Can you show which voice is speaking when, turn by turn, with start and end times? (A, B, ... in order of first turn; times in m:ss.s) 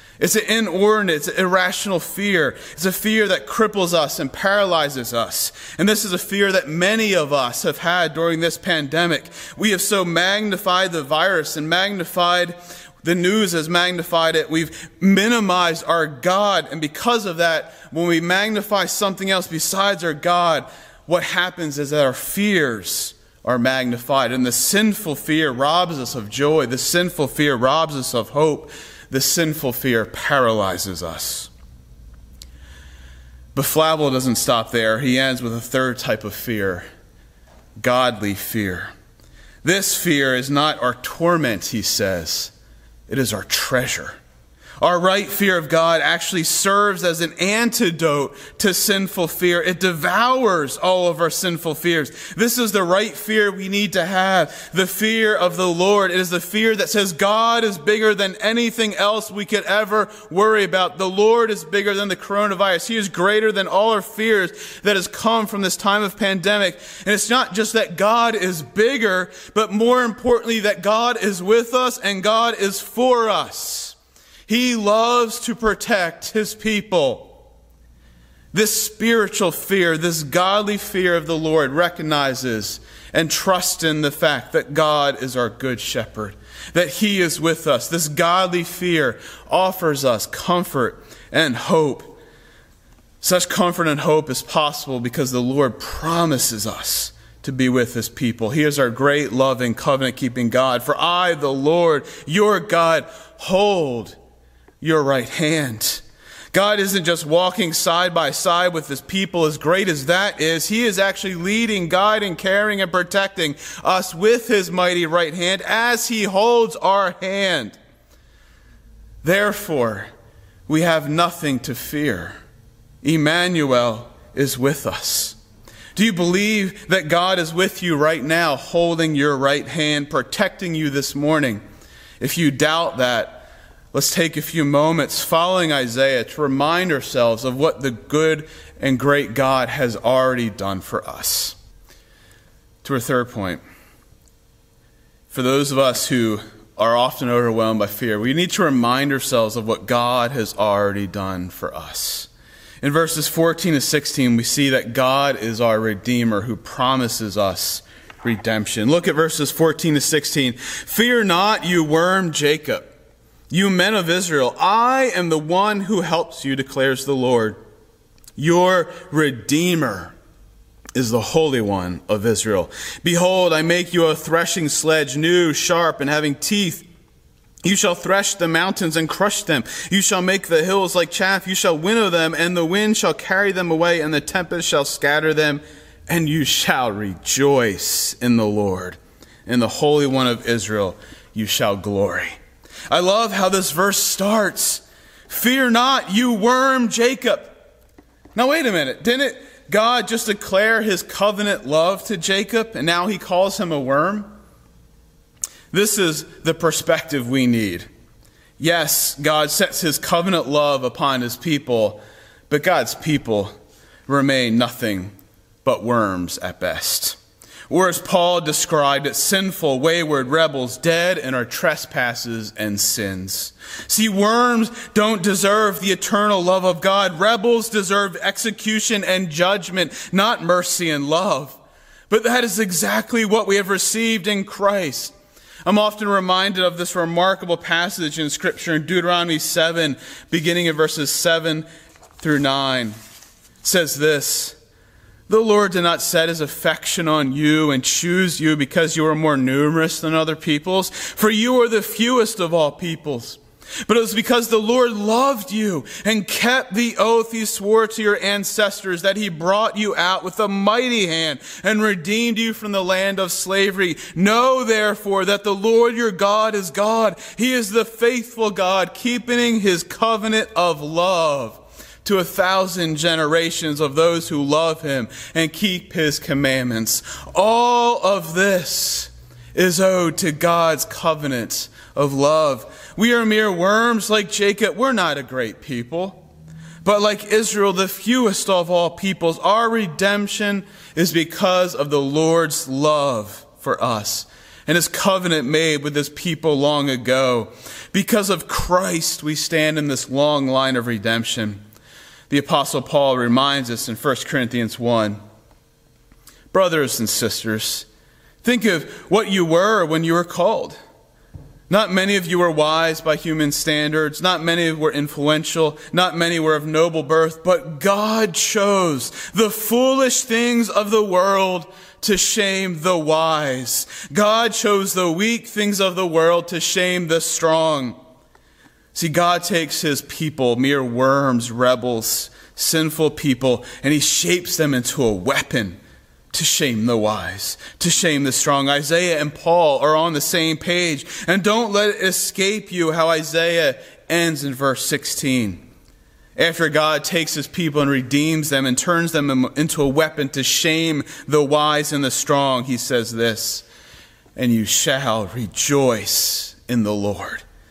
0:00.2-0:31.5 A
0:33.5-0:36.9 A
0:37.8-0:38.9 A
0:39.6-0:42.5 A
0:43.1-0:44.2 A
0:44.8-1:14.0 A
1:14.5-1:17.3 A
1:18.5-1:32.2 A
1:33.2-1:44.2 A
1:44.8-1:57.8 A
1:59.2-2:00.1 A
2:00.7-2:02.4 A
2:03.0-2:05.4 A
2:05.9-2:11.6 A
2:12.2-2:21.6 A
2:22.8-2:23.6 A
2:25.3-2:32.3 A
2:32.8-2:42.9 A
2:43.5-2:47.6 A
2:48.4-2:50.1 A
2:50.9-2:56.9 A
2:57.6-3:12.4 A
3:12.9-3:17.6 A
3:18.4-3:24.3 A
3:25.7-3:27.9 A
3:28.6-3:33.5 A
3:34.1-3:35.1 A
3:35.6-3:37.2 A
3:37.7-3:51.6 A
3:52.1-3:55.1 A
3:55.6-4:01.7 A
4:02.2-4:03.0 A
4:03.6-4:04.6 A
4:05.3-4:46.2 A
4:46.8-5:01.6 A
5:02.3-5:05.2 A
5:06.5-5:07.9 A
5:08.4-5:10.8 A
5:11.7-5:28.0 A
5:28.9-5:35.8 A
5:36.3-5:45.6 A
5:46.4-5:53.7 A
5:54.4-5:57.4 A